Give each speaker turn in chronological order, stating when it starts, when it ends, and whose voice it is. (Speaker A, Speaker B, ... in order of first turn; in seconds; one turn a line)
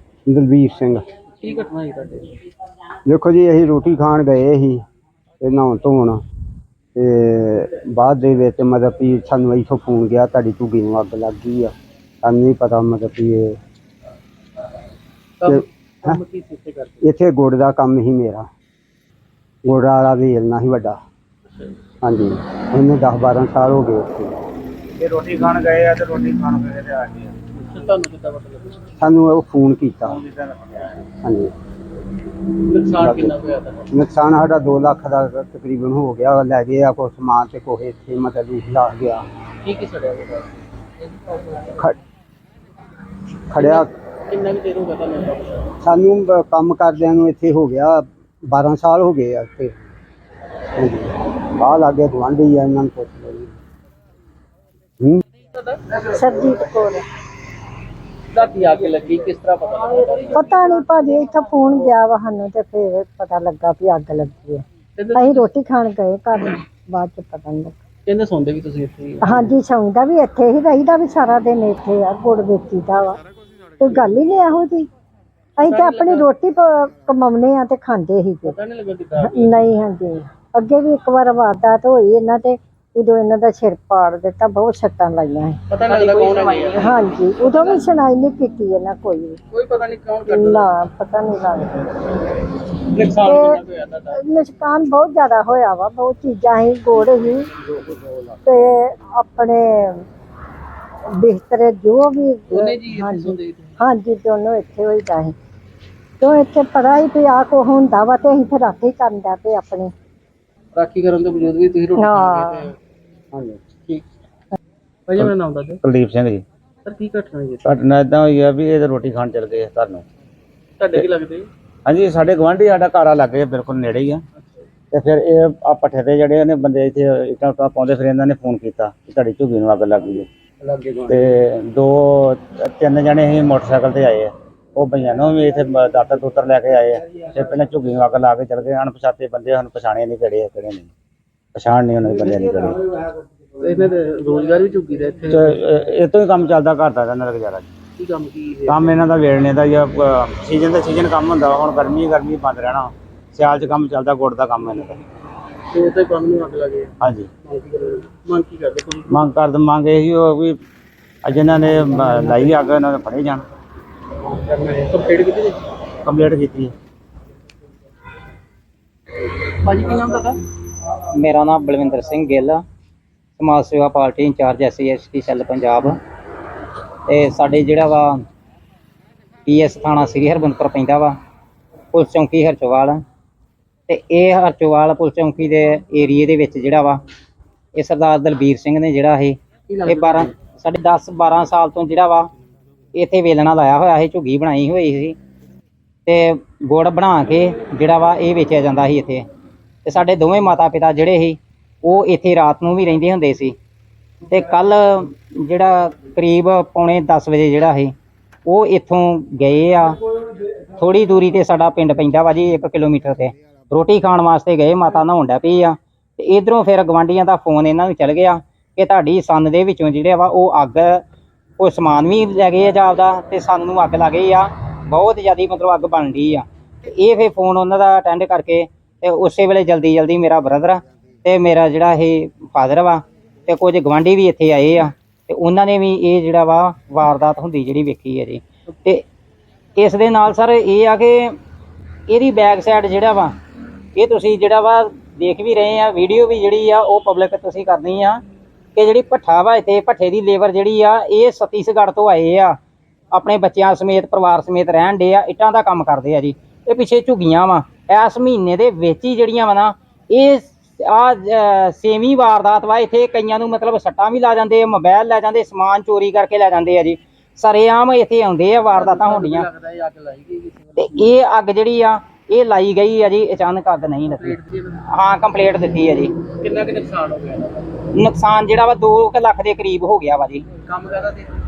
Speaker A: 0.3-1.1
Speaker B: 1.4-2.4
Speaker A: 3.1-4.8
Speaker A: 5.4-6.2
Speaker A: 7.0-13.6
Speaker B: 15.4-17.0
Speaker A: 15.4-16.2
Speaker A: 17.0-18.5
Speaker A: 19.6-21.0
Speaker B: 21.5-21.7
Speaker A: 22.0-24.4
Speaker C: 25.0-27.4
Speaker B: 27.6-28.9
Speaker A: 29.0-30.2
Speaker C: 30.1-31.0
Speaker A: 31.2-31.5
Speaker B: 32.6-33.9
Speaker A: 33.0-33.4
Speaker A: 33.9-39.2
Speaker B: 39.6-40.5
Speaker A: 41.7-42.0
Speaker A: 43.5-43.9
Speaker B: 43.6-45.7
Speaker A: 45.8-49.7
Speaker A: 50.8-53.5
Speaker B: 55.5-55.8
Speaker D: 56.0-57.0
Speaker B: 58.3-60.6
Speaker D: 60.3-67.8
Speaker B: 65.0-65.5
Speaker B: 68.1-69.6
Speaker D: 69.2-73.2
Speaker D: 73.8-74.9
Speaker D: 75.6-78.6
Speaker B: 75.6-76.3
Speaker B: 78.4-79.6
Speaker D: 79.2-85.6
Speaker B: 85.7-87.1
Speaker D: 86.7-89.4
Speaker B: 89.5-90.7
Speaker D: 90.3-91.9
Speaker B: 92.9-94.2
Speaker D: 93.2-93.6
Speaker D: 94.1-97.5
Speaker A: 97.8-98.2
Speaker D: 98.5-100.0
Speaker D: 101.1-105.4
Speaker B: 102.5-103.8
Speaker D: 106.2-109.9
Speaker B: 110.8-112.8
Speaker D: 112.0-112.7
Speaker A: 113.3-113.6
Speaker B: 115.1-115.8
Speaker C: 115.8-116.4
Speaker B: 116.8-117.8
Speaker C: 117.7-120.0
Speaker B: 120.8-121.5
Speaker C: 121.9-124.2
Speaker B: 124.4-124.7
Speaker C: 124.9-130.3
Speaker A: 130.6-131.3
Speaker C: 131.1-140.9
Speaker C: 141.6-142.8
Speaker B: 143.6-145.6
Speaker C: 145.3-147.7
Speaker B: 148.0-149.0
Speaker C: 148.7-155.0
Speaker B: 155.7-156.9
Speaker C: 157.0-157.3
Speaker B: 157.4-159.3
Speaker C: 159.1-160.6
Speaker C: 161.2-163.4
Speaker B: 161.8-162.6
Speaker B: 164.2-165.6
Speaker C: 166.1-166.7
Speaker B: 169.6-170.4
Speaker E: 171.1-172.6
Speaker E: 173.4-176.0
Speaker E: 177.1-178.2
Speaker E: 179.5-181.2
Speaker E: 181.9-183.0
Speaker E: 183.9-187.0
Speaker E: 187.8-192.3
Speaker B: 189.7-190.4
Speaker E: 192.9-195.2
Speaker E: 196.1-199.3
Speaker E: 199.8-203.6
Speaker E: 204.3-207.9
Speaker E: 208.5-210.0
Speaker E: 210.8-221.0
Speaker E: 221.6-239.0
Speaker E: 239.8-241.4
Speaker E: 242.1-243.3
Speaker E: 244.0-248.2
Speaker E: 248.8-252.6
Speaker E: 253.1-269.5
Speaker B: 268.7-271.0
Speaker E: 270.8-276.1
Speaker B: 274.1-274.8
Speaker B: 276.3-277.9
Speaker E: 277.9-280.5
Speaker B: 280.6-281.3